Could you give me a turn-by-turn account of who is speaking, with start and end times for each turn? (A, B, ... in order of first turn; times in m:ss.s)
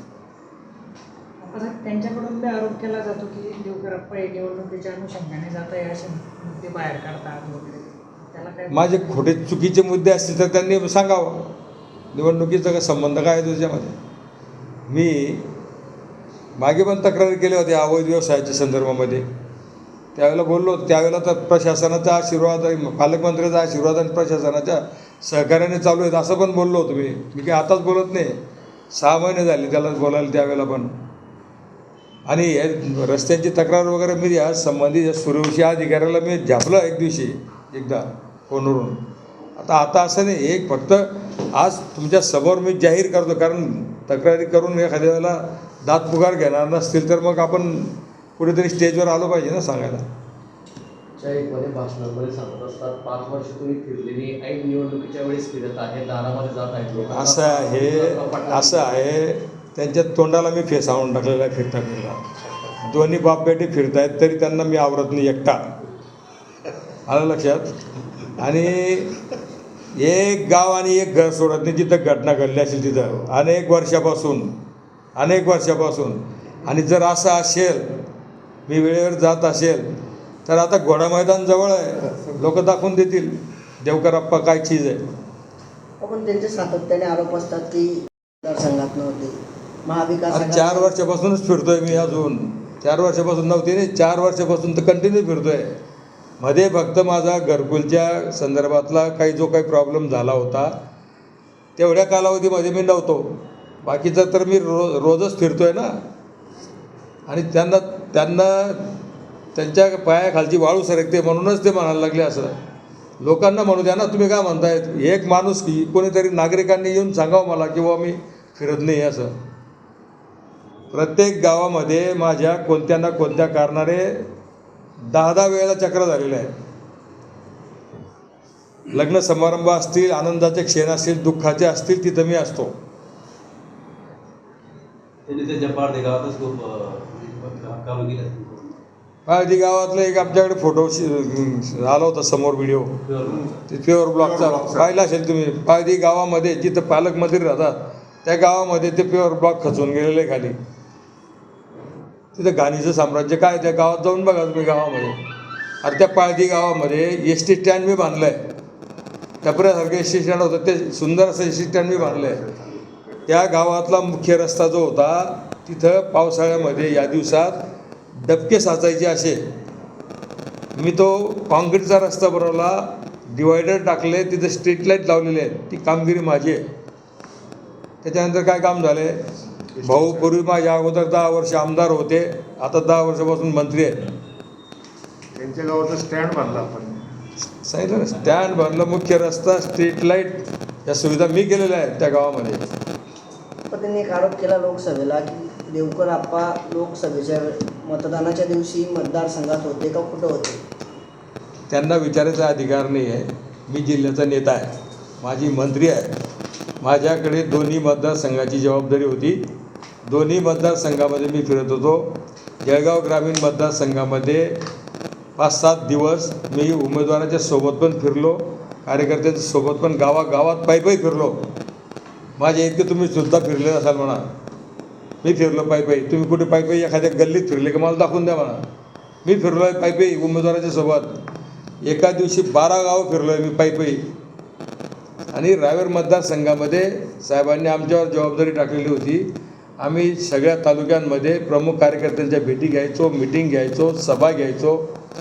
0:01.4-0:08.8 A
0:08.7-0:11.5 B
0:12.1-0:14.0 B
0:14.9-0:15.5 B
0:16.6-0:19.2 B
0:20.1-0:28.4 B
0:28.9-0:31.0 B
0:32.3-0:39.0 B
0:39.6-0:50.0 B
0:51.2-0:58.9 C
0:57.1-1:02.2 B
1:02.8-1:05.6 B
1:07.0-1:07.7 B
1:08.4-1:09.2 B
1:09.9-1:14.6 B
1:15.2-1:17.9 B
1:18.7-1:19.9 B
1:20.4-1:25.0 B
1:26.0-1:30.9 D
1:30.3-1:35.7 B
1:36.4-1:40.8 B
1:41.8-1:46.0 B
1:47.3-1:49.0 B
1:49.5-1:52.5 B
1:53.2-1:59.3 B
2:00.9-2:04.3 B
2:05.1-2:06.5 B
2:08.9-2:12.8 B
2:15.3-2:18.8 C
2:19.2-2:23.0 B
2:23.0-2:23.5 C
2:23.7-2:30.6 B
2:32.3-2:35.2 B
2:35.8-2:38.5 B
2:39.4-2:42.5 B
2:43.3-2:47.6 B
2:48.2-2:49.4 B
2:50.8-2:56.7 B
2:58.0-2:59.2 B
2:59.8-3:04.1 B
2:59.9-3:00.2 E
3:05.4-3:07.0 E
3:07.4-3:12.6 B
3:13.7-3:20.6 D
3:21.7-3:26.2 B
3:26.8-3:29.4 B
3:30.0-3:34.6 B
3:35.4-3:41.5 B
3:42.4-3:44.2 B
3:45.2-3:48.6 B
3:49.2-3:51.2 B
3:51.8-3:54.1 B
3:55.3-4:05.0 B